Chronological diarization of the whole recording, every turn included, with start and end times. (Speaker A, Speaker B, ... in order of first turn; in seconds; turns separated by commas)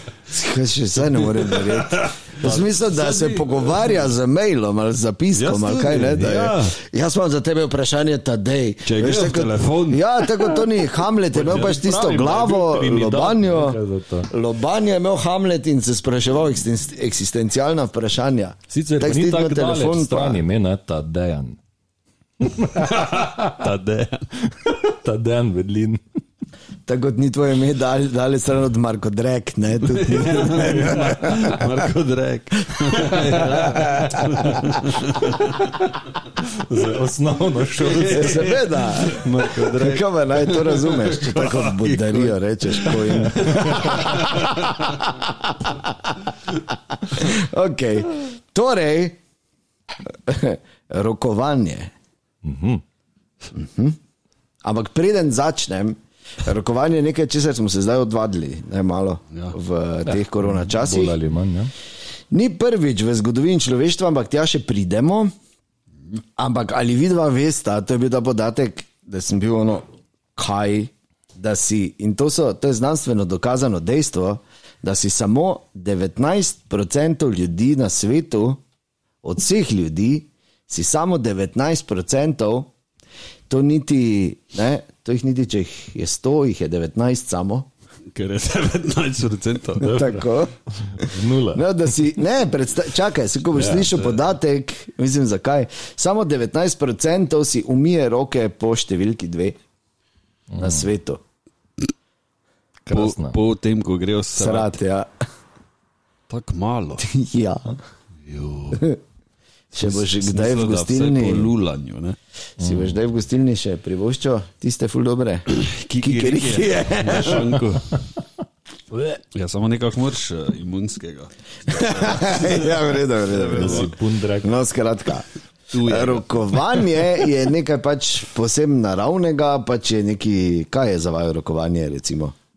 Speaker A: 0.3-20.4, Speaker B: 1.4-3.9, Speaker B: 5.3-6.8, Speaker B: 8.8-10.6, Speaker C: 11.3-14.3, Speaker C: 18.7-21.6, Speaker C: 22.4-23.6, Speaker B: 22.8-24.3, Speaker C: 24.4-26.0, Speaker A: 26.9-31.7, Speaker B: 29.8-36.0, Speaker A: 32.9-33.2, Speaker A: 33.7-34.2, Speaker C: 36.4-39.6, Speaker B: 37.8-45.1, Speaker A: 38.0-46.1, Speaker C: 43.4-44.1, Speaker A: 47.0-49.2, Speaker A: 50.1-51.9, Speaker C: 52.4-52.8, Speaker A: 53.5-54.0, Speaker A: 54.6-61.2, Speaker C: 60.1-61.7, Speaker A: 62.3-65.3, Speaker A: 66.4-78.6, Speaker A: 79.2-82.7, Speaker A: 83.5-87.7, Speaker B: 88.1-90.0, Speaker C: 89.8-90.3, Speaker A: 89.8-99.6, Speaker C: 90.8-91.6, Speaker C: 93.5-94.0, Speaker B: 93.9-94.2, Speaker C: 100.5-100.9, Speaker A: 100.6-101.2, Speaker C: 102.9-103.4, Speaker B: 102.9-104.8, Speaker A: 104.4-105.1, Speaker B: 106.3-107.1, Speaker A: 107.0-107.8, Speaker B: 108.3-108.9, Speaker A: 109.7-111.5, Speaker B: 109.8-112.2, Speaker A: 112.6-117.6, Speaker C: 112.6-113.0, Speaker B: 115.5-118.0, Speaker C: 118.9-119.2, Speaker B: 119.3-123.9, Speaker A: 121.7-125.3, Speaker C: 123.5-124.5, Speaker B: 125.7-126.9, Speaker A: 125.8-132.3